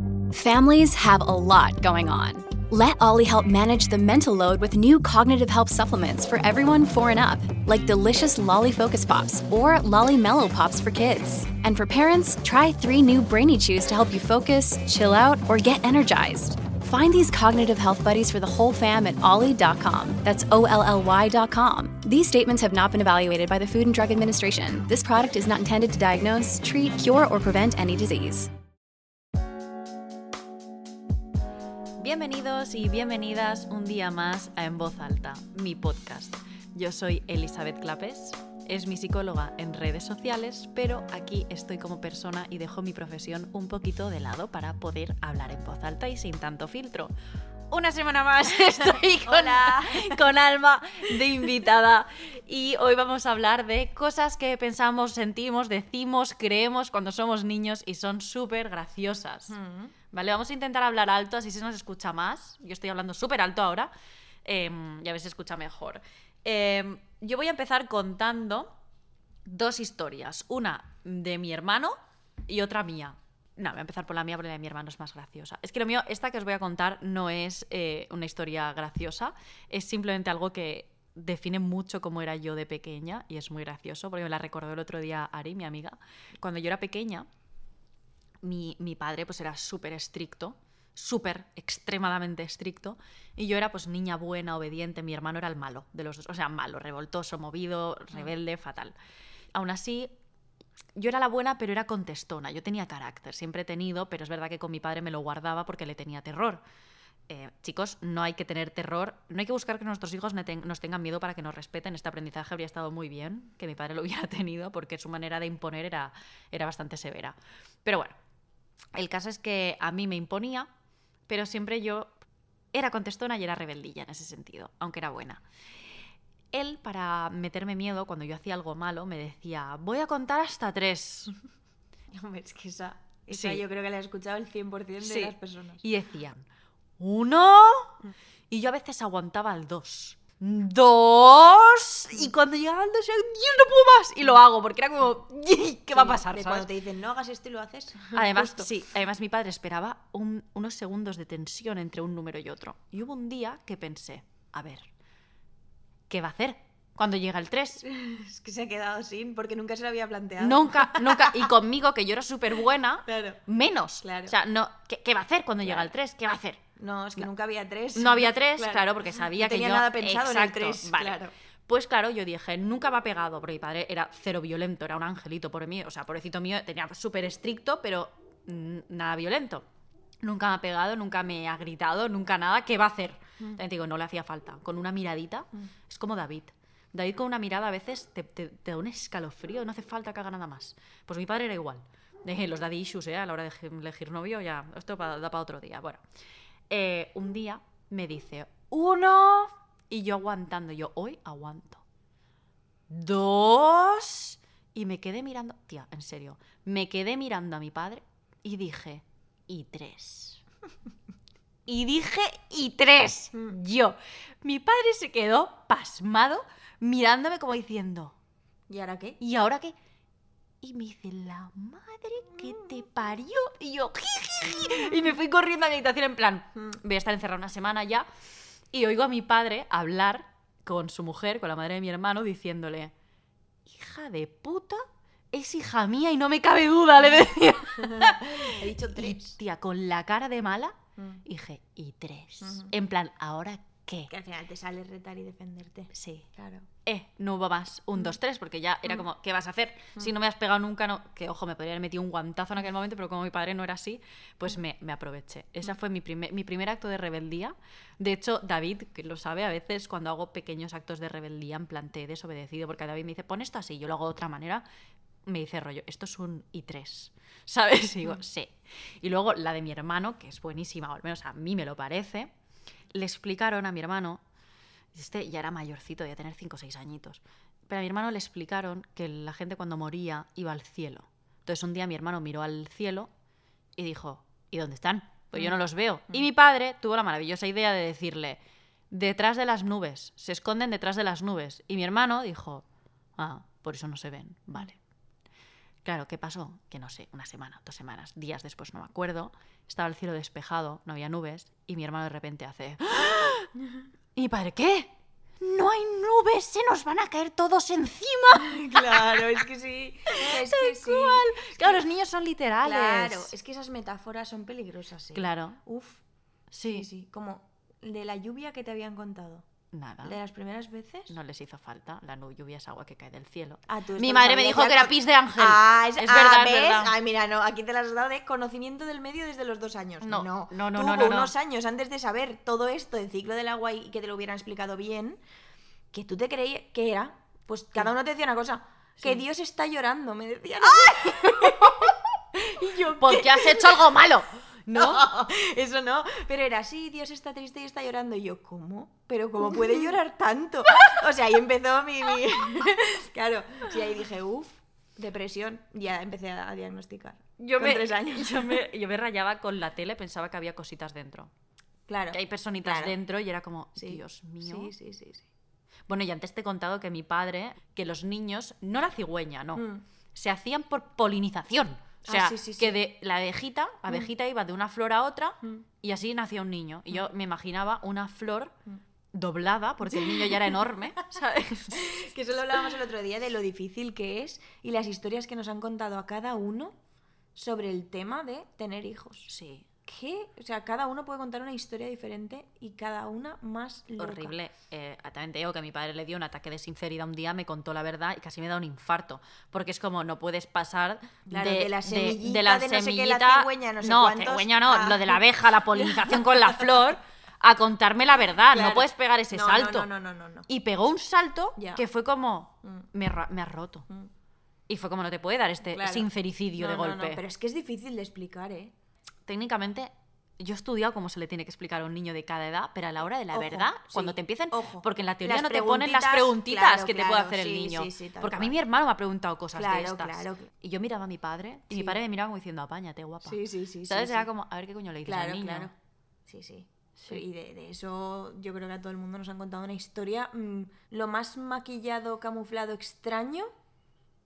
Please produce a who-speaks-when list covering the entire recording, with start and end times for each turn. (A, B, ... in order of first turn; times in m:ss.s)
0:00.3-0:28.5 A
0:32.0-0:47.1 B
0:47.7-0:59.6 B
0:49.1-0:50.2 C
0:59.5-0:59.9 C
1:00.1-1:03.9 B
1:04.4-1:08.7 B
1:09.5-1:12.0 B
1:12.5-1:27.3 B
1:28.4-1:39.0 B
1:39.5-1:40.1 B
1:41.0-1:46.6 B
1:47.3-1:58.2 B
1:58.9-2:00.7 B
2:01.3-2:02.1 B
2:02.7-2:05.4 B
2:06.5-2:11.3 B
2:12.1-2:15.8 C
2:13.3-2:13.6 B
2:15.0-2:16.4 B
2:17.0-2:18.0 B
2:18.5-2:26.7 B
2:25.9-2:28.7 C
2:28.1-2:34.9 B
2:36.1-2:37.8 B
2:37.8-2:41.5 C
2:40.4-2:46.6 B
2:43.1-2:43.4 C
2:44.0-2:44.4 C
2:45.6-2:45.9 C
2:46.8-2:51.3 C
2:48.0-2:59.6 B
3:00.2-3:16.0 B
3:16.7-3:21.8 B
3:22.9-3:30.4 B
3:31.7-3:38.1 B
3:38.7-3:39.2 C
3:39.2-3:39.8 B
3:40.6-3:48.1 B
3:48.7-3:52.9 B
3:53.7-4:04.1 B
3:57.8-3:59.4 C
4:02.4-4:02.7 C
4:04.1-4:06.7 C
4:05.9-4:06.3 B
4:06.9-4:24.6 B
4:25.3-4:32.3 B
4:32.9-4:34.2 B
4:34.9-4:43.1 B
4:43.8-4:48.4 B
4:48.9-4:52.6 B
4:53.2-4:54.8 B
4:55.8-5:03.5 B
5:04.2-5:09.4 B
5:08.4-5:11.8 C
5:10.1-5:13.3 B
5:12.6-5:16.0 C
5:15.2-5:15.6 B
5:16.5-5:16.9 B
5:16.7-5:19.4 C
5:19.7-5:20.2 B
5:20.0-5:21.2 C
5:21.1-5:27.0 B
5:23.7-5:35.2 C
5:30.0-5:31.3 B
5:35.9-5:43.9 C
5:40.9-5:41.9 B
5:43.0-5:45.1 B
5:44.7-5:58.6 C
5:57.4-6:01.3 B
6:01.9-6:03.0 C
6:02.1-6:04.7 B
6:03.8-6:05.3 C
6:05.9-6:18.6 B
6:09.6-6:09.8 C
6:12.0-6:12.8 C
6:19.1-6:22.0 B
6:19.9-6:20.7 C
6:21.7-6:26.8 C
6:27.4-6:29.3 C
6:29.3-6:29.7 B
6:29.8-6:34.3 C
6:34.0-6:49.9 B
6:41.3-6:46.8 C
6:48.5-6:50.5 C
6:50.5-6:53.9 B
6:51.6-6:51.8 C
6:54.7-6:57.2 B
6:55.7-6:58.7 C
6:59.3-7:15.7 B
7:03.3-7:08.6 C
7:09.5-7:10.5 C
7:11.7-7:12.0 C
7:13.2-7:14.3 C
7:15.1-7:15.7 C
7:16.3-7:23.5 C